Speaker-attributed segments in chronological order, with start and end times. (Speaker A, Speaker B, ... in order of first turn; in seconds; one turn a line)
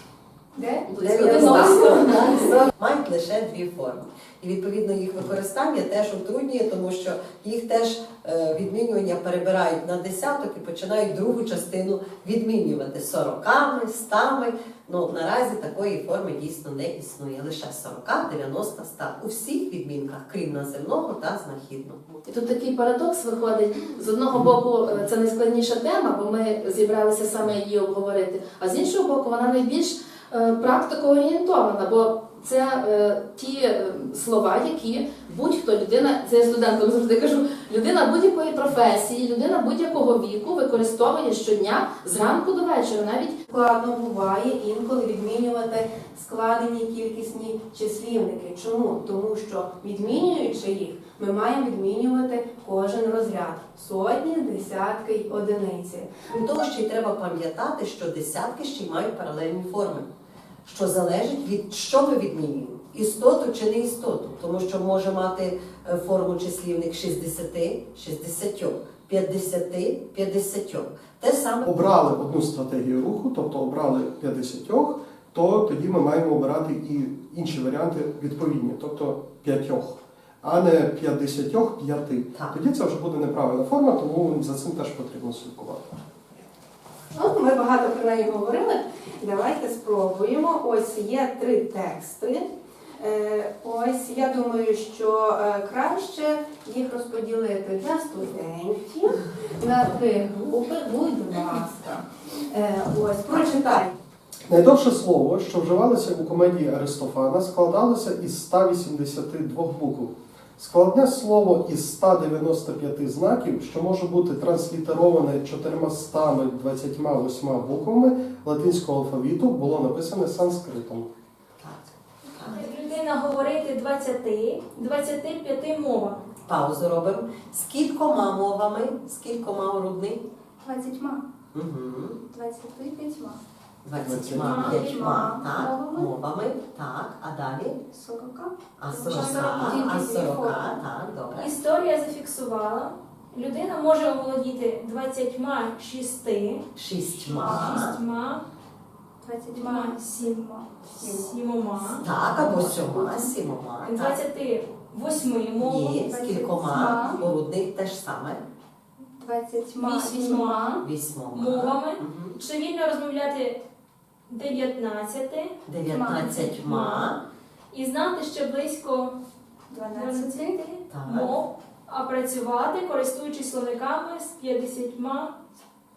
Speaker A: 0.6-2.0
Speaker B: 0.9-2.5
Speaker C: 1.0-22.1
Speaker B: 22.3-43.4
Speaker A: 43.5-56.2
Speaker C: 56.3-60.1
Speaker C: 60.6-71.7
Speaker D: 71.6-85.9
Speaker A: 87.1-92.5
Speaker A: 93.0-103.9
Speaker D: 104.5-121.1
Speaker C: 121.6-122.6
Speaker E: 122.5-126.3
Speaker C: 126.5-130.2
Speaker F: 130.6-131.2
Speaker C: 131.5-132.2
Speaker F: 132.3-133.4
Speaker C: 133.8-137.8
Speaker D: 134.0-134.7
Speaker E: 134.3-135.0
Speaker F: 134.7-136.1
Speaker F: 137.9-140.8
Speaker C: 138.8-141.6
Speaker E: 139.1-139.7
Speaker E: 141.3-148.4
Speaker C: 146.8-148.0
Speaker F: 147.3-147.8
Speaker F: 149.2-152.0
Speaker E: 149.6-156.0
Speaker C: 152.0-154.2
Speaker C: 155.6-158.4
Speaker F: 155.9-157.3
Speaker F: 159.2-160.8
Speaker E: 159.8-163.6
Speaker C: 160.8-162.3
Speaker E: 164.3-165.6
Speaker C: 165.7-167.2
Speaker F: 165.8-166.4
Speaker E: 166.2-167.1
Speaker E: 167.7-169.2
Speaker F: 169.7-170.6
Speaker E: 169.9-175.3
Speaker C: 170.9-171.3